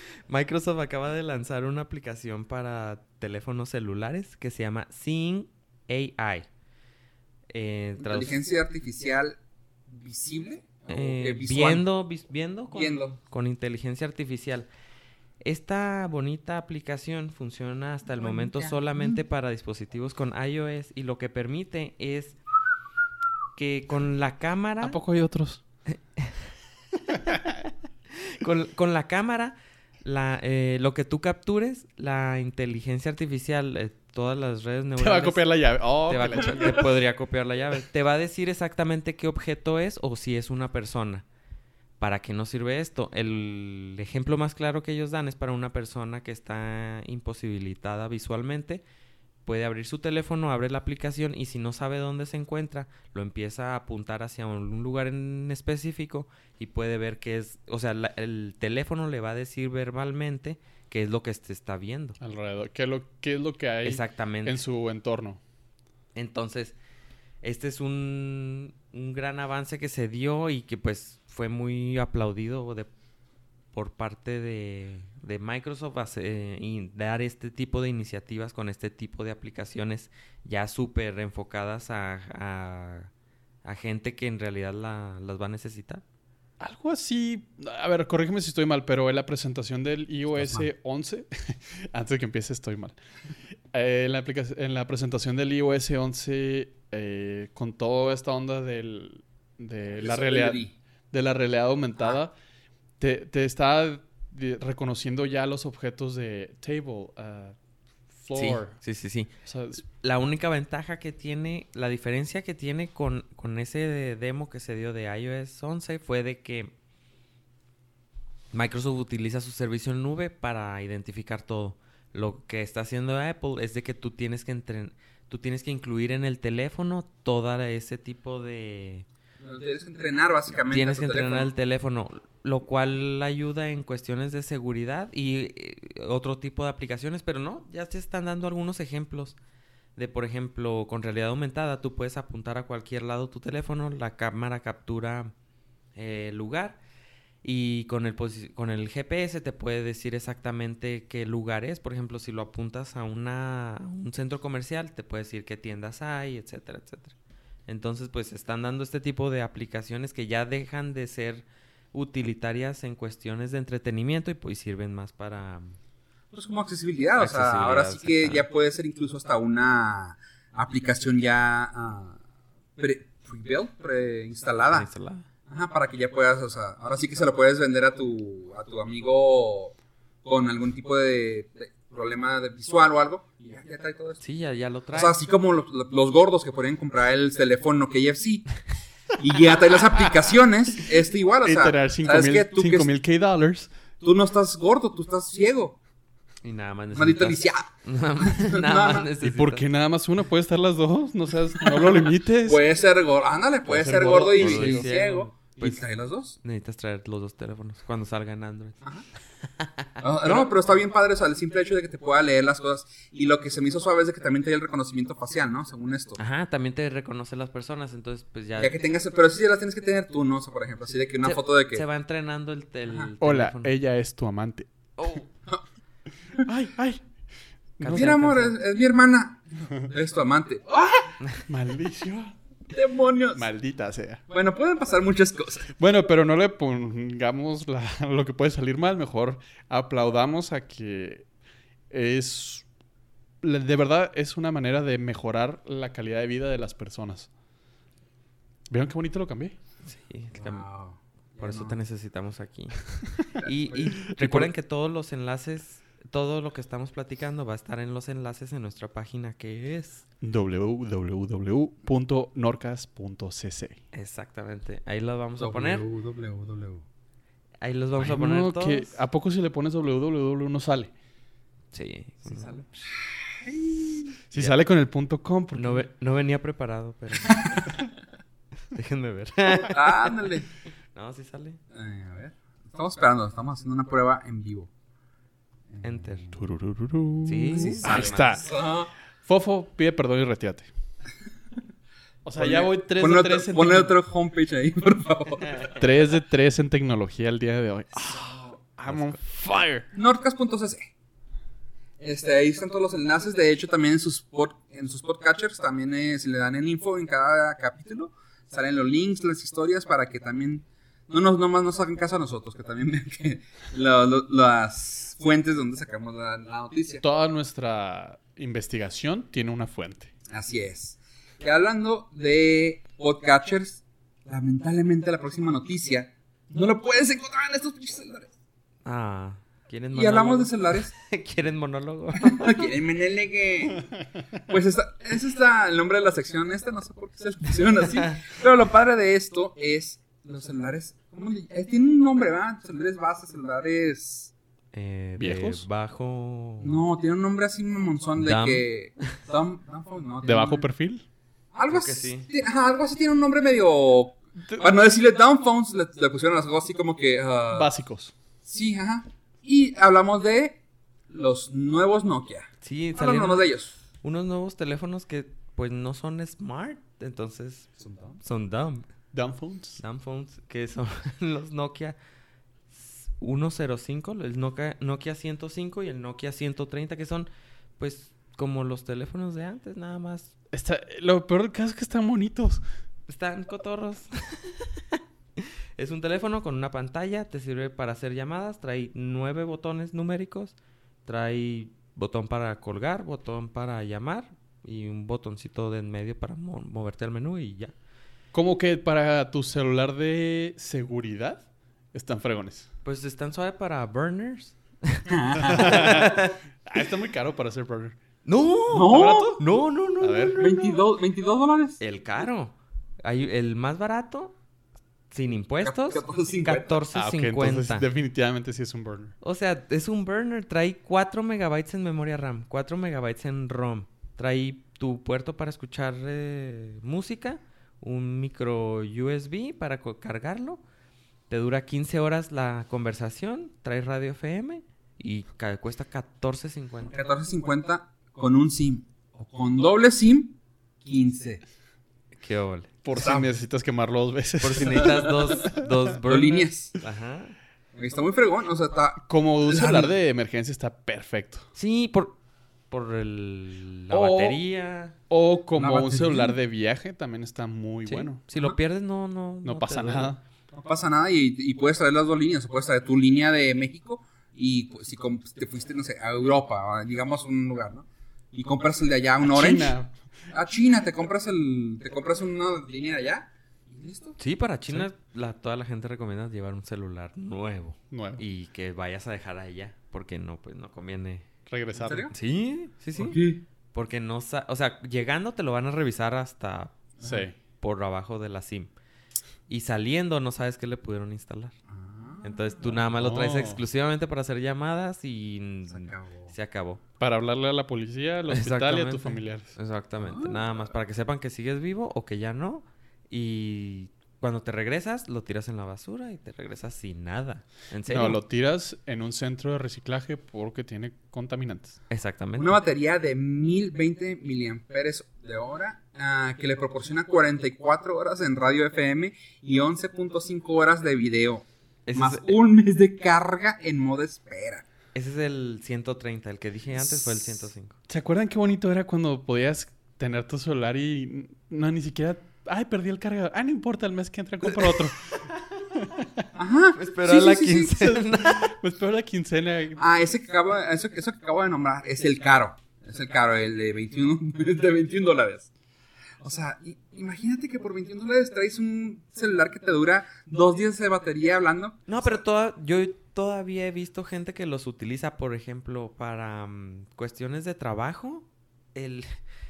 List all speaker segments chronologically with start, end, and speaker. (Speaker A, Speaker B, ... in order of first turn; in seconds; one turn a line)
Speaker A: 0.3-6.5
Speaker A: 7.5-8.4
Speaker B: 8.0-9.4
Speaker B: 9.9-11.9
Speaker A: 10.9-14.7
Speaker B: 12.7-13.2
Speaker A: 15.4-22.4
Speaker B: 18.2-19.2
Speaker A: 23.6-25.0
Speaker C: 24.8-25.6
Speaker A: 25.9-26.4
Speaker A: 28.1-35.5
Speaker C: 35.0-36.9
Speaker A: 36.0-41.2
Speaker A: 42.0-48.8
Speaker A: 49.5-62.2
Speaker C: 62.2-65.4
Speaker A: 63.9-64.6
Speaker A: 66.2-66.8
Speaker A: 67.4-72.9
Speaker A: 73.7-83.1
Speaker A: 83.6-86.0
Speaker C: 86.6-93.0
Speaker B: 90.3-90.7
Speaker C: 93.7-102.3
Speaker B: 100.0-100.7
Speaker C: 103.0-107.6
Speaker C: 108.1-108.8
Speaker A: 108.3-109.3
Speaker C: 109.5-109.8
Speaker A: 109.9-116.7
Speaker A: 118.5-129.1
Speaker B: 129.4-131.5
Speaker A: 130.7-139.4
Speaker A: 140.0-145.3
Speaker A: 146.0-146.8
Speaker A: 147.4-157.2
Speaker A: 157.7-165.8
Speaker B: 166.3-172.2
Speaker A: 167.2-168.5
Speaker B: 172.8-174.9
Speaker A: 174.7-175.3
Speaker B: 175.5-184.2
Speaker A: 184.2-185.2
Speaker B: 184.9-188.5
Speaker B: 189.2-192.9
Speaker C: 191.4-193.7
Speaker B: 194.0-195.8
Speaker A: 196.4-199.7
Speaker B: 196.9-197.7
Speaker B: 198.2-199.1
Speaker C: 199.2-202.6
Speaker B: 201.6-206.4
Speaker C: 203.8-204.9
Speaker A: 203.8-205.8
Speaker A: 206.4-208.8
Speaker A: 209.6-210.5
Speaker B: 210.0-216.2
Speaker A: 216.2-218.7
Speaker B: 218.6-221.8
Speaker A: 221.2-223.8
Speaker C: 223.2-224.7
Speaker A: 225.0-225.3
Speaker C: 226.5-227.0
Speaker C: 227.8-228.2
Speaker A: 227.8-228.6
Speaker B: 227.9-231.2
Speaker C: 231.5-232.3
Speaker B: 232.7-233.5
Speaker C: 233.3-234.2
Speaker B: 234.3-235.7
Speaker C: 235.8-241.3
Speaker C: 241.9-242.7
Speaker C: 243.4-247.3
Speaker C: 248.7-249.6
Speaker A: 249.8-250.7
Speaker B: 250.3-251.8
Speaker A: 251.4-260.0
Speaker B: 253.4-253.9
Speaker C: 254.2-254.5
Speaker C: 260.2-263.8
Speaker A: 263.9-265.9
Speaker B: 265.4-266.9
Speaker A: 267.6-269.0
Speaker C: 268.0-270.9
Speaker A: 271.7-272.6
Speaker B: 272.2-274.1
Speaker C: 274.3-275.9
Speaker A: 275.6-277.6
Speaker B: 277.2-277.6
Speaker A: 278.7-280.3
Speaker B: 279.7-280.5
Speaker A: 280.9-281.6
Speaker B: 281.7-284.7
Speaker B: 285.7-286.4
Speaker A: 285.8-286.3
Speaker C: 286.4-288.4
Speaker A: 287.2-288.4
Speaker B: 287.5-288.9
Speaker C: 289.2-290.7
Speaker C: 292.2-293.9
Speaker B: 292.4-295.8
Speaker C: 295.8-299.9
Speaker B: 298.0-298.5
Speaker A: 298.9-299.2
Speaker B: 299.9-300.9
Speaker B: 302.0-317.0
Speaker C: 317.0-320.1
Speaker B: 320.3-328.3
Speaker A: 328.9-332.7
Speaker B: 329.9-330.9
Speaker B: 332.2-333.9
Speaker B: 334.5-344.3
Speaker A: 344.7-346.8
Speaker C: 345.2-345.7
Speaker B: 346.6-350.7
Speaker A: 348.2-348.7
Speaker C: 350.2-351.1
Speaker B: 351.5-357.7
Speaker A: 351.7-352.3
Speaker C: 357.5-358.1
Speaker B: 358.4-363.7
Speaker A: 362.6-363.5
Speaker A: 364.0-367.7
Speaker B: 367.8-368.2
Speaker A: 368.2-368.9
Speaker C: 369.1-369.8
Speaker A: 369.8-372.0
Speaker A: 372.7-380.3
Speaker C: 380.5-382.6
Speaker A: 383.1-397.7
Speaker C: 398.3-402.7
Speaker A: 402.8-406.4
Speaker B: 405.1-406.1
Speaker C: 405.5-406.1
Speaker C: 406.6-408.0
Speaker A: 408.2-410.8
Speaker B: 408.7-409.4
Speaker C: 408.9-409.4
Speaker C: 410.0-410.4
Speaker B: 410.4-411.8
Speaker A: 411.8-414.4
Speaker A: 415.1-417.9
Speaker B: 415.6-416.8
Speaker C: 416.9-419.1
Speaker A: 419.2-430.6
Speaker A: 431.3-436.9
Speaker B: 436.9-441.4
Speaker A: 442.2-442.7
Speaker C: 442.8-445.6
Speaker B: 442.9-443.3
Speaker A: 444.4-447.4
Speaker B: 444.6-446.8
Speaker B: 447.7-449.9
Speaker C: 449.1-451.5
Speaker A: 451.6-452.2
Speaker A: 452.7-455.0
Speaker B: 454.0-454.3
Speaker C: 455.1-458.2
Speaker B: 455.6-456.4
Speaker A: 457.9-460.1
Speaker C: 459.4-460.2
Speaker B: 460.5-469.8
Speaker C: 469.2-470.0
Speaker B: 470.3-474.2
Speaker A: 474.2-481.3
Speaker C: 477.9-478.2
Speaker C: 481.5-482.1
Speaker B: 481.7-482.1
Speaker A: 482.1-483.2
Speaker B: 482.9-483.4
Speaker A: 483.7-486.8
Speaker B: 487.0-487.3
Speaker C: 487.0-487.4
Speaker A: 487.6-488.7
Speaker A: 489.5-491.5
Speaker B: 491.7-492.8
Speaker A: 492.2-496.8
Speaker C: 492.8-493.6
Speaker B: 495.7-496.3
Speaker C: 497.0-499.5
Speaker A: 498.3-508.2
Speaker B: 500.0-500.7
Speaker C: 507.9-511.8
Speaker A: 511.9-512.6
Speaker B: 512.4-524.6
Speaker A: 521.9-522.4
Speaker A: 525.0-527.8
Speaker B: 526.8-527.4
Speaker C: 527.9-535.2
Speaker C: 535.7-536.3
Speaker B: 536.4-537.9
Speaker A: 536.8-538.5
Speaker C: 537.8-539.8
Speaker B: 539.8-545.5
Speaker B: 546.2-552.2
Speaker A: 551.9-559.1